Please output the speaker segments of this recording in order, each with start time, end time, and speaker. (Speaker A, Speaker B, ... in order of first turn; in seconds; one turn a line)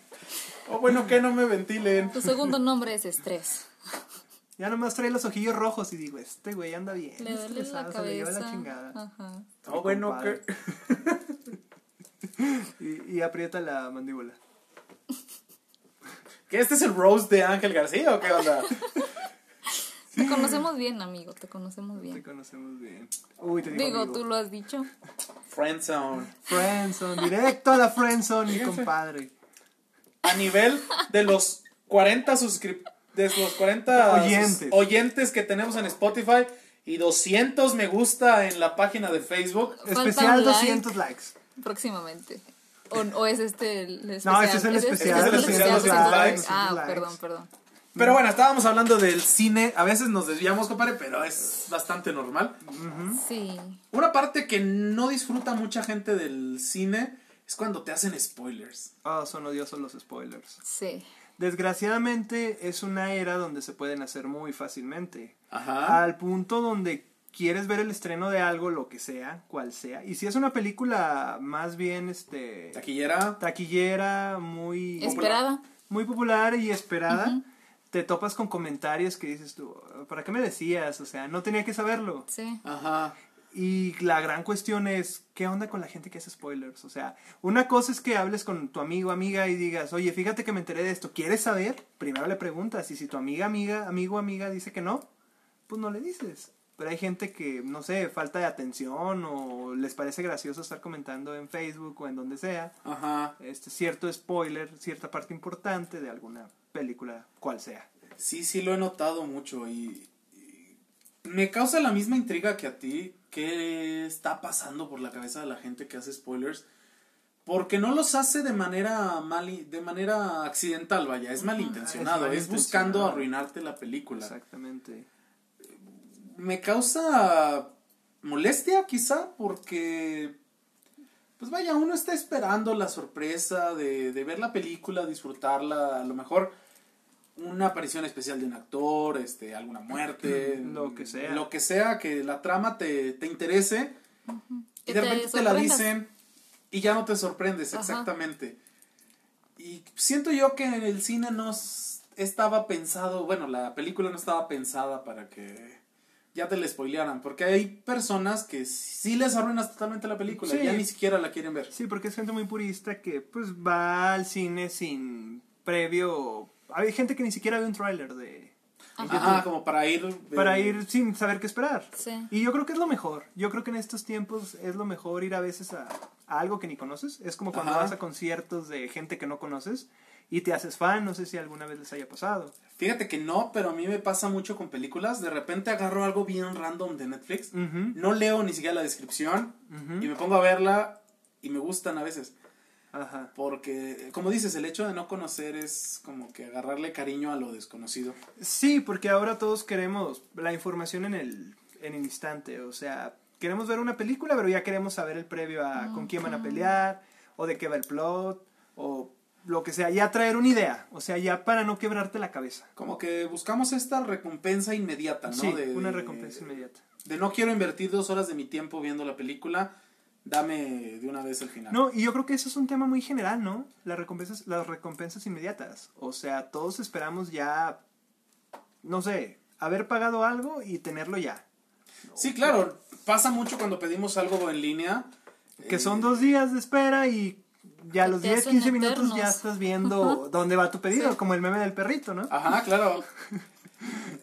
Speaker A: 0.7-2.4
Speaker B: 2.1-3.7
Speaker C: 4.6-9.0
Speaker B: 7.2-9.5
Speaker C: 9.6-10.4
Speaker A: 9.7-11.3
Speaker C: 12.4-14.4
Speaker A: 16.5-18.8
Speaker B: 20.1-22.2
Speaker C: 20.1-20.6
Speaker C: 22.0-24.2
Speaker B: 23.7-24.9
Speaker A: 25.5-26.3
Speaker C: 26.4-29.3
Speaker A: 28.5-28.9
Speaker A: 30.2-39.8
Speaker C: 33.9-34.8
Speaker B: 39.8-40.9
Speaker C: 39.8-41.4
Speaker B: 41.6-47.5
Speaker C: 44.2-47.2
Speaker A: 45.0-46.5
Speaker C: 48.0-48.2
Speaker A: 48.0-52.6
Speaker C: 52.6-53.2
Speaker B: 53.1-53.8
Speaker A: 53.9-58.9
Speaker C: 59.0-60.6
Speaker B: 60.6-61.1
Speaker C: 61.4-72.8
Speaker A: 65.5-66.0
Speaker A: 72.7-73.4
Speaker C: 73.4-77.4
Speaker B: 75.0-75.6
Speaker A: 75.0-75.4
Speaker B: 77.1-77.4
Speaker C: 77.9-82.3
Speaker B: 82.3-82.6
Speaker A: 82.7-83.2
Speaker C: 83.5-95.1
Speaker C: 95.7-102.8
Speaker A: 102.8-103.4
Speaker C: 103.4-107.9
Speaker A: 108.2-110.7
Speaker A: 111.2-116.7
Speaker A: 117.5-124.3
Speaker B: 121.4-121.7
Speaker C: 121.7-123.3
Speaker C: 124.1-125.1
Speaker A: 126.2-130.4
Speaker A: 131.4-136.5
Speaker A: 137.4-143.9
Speaker C: 140.2-141.5
Speaker B: 144.3-145.9
Speaker A: 144.9-146.1
Speaker A: 146.7-148.6
Speaker B: 147.7-148.1
Speaker A: 149.6-155.8
Speaker A: 156.3-161.7
Speaker C: 160.3-160.9
Speaker C: 161.7-168.5
Speaker B: 169.0-169.4
Speaker A: 169.0-170.8
Speaker C: 169.0-169.5
Speaker C: 170.3-182.5
Speaker B: 171.9-172.3
Speaker A: 177.5-177.9
Speaker A: 182.8-192.3
Speaker C: 187.5-188.0
Speaker C: 189.7-190.1
Speaker C: 192.9-193.3
Speaker A: 193.4-198.2
Speaker C: 198.4-212.7
Speaker B: 205.8-206.8
Speaker A: 212.8-216.5
Speaker C: 215.3-216.8
Speaker A: 217.1-219.7
Speaker A: 220.2-221.8
Speaker C: 221.7-227.8
Speaker C: 228.8-231.4
Speaker C: 232.1-232.5
Speaker A: 232.2-236.2
Speaker C: 235.6-242.3
Speaker B: 238.0-240.2
Speaker A: 242.3-243.1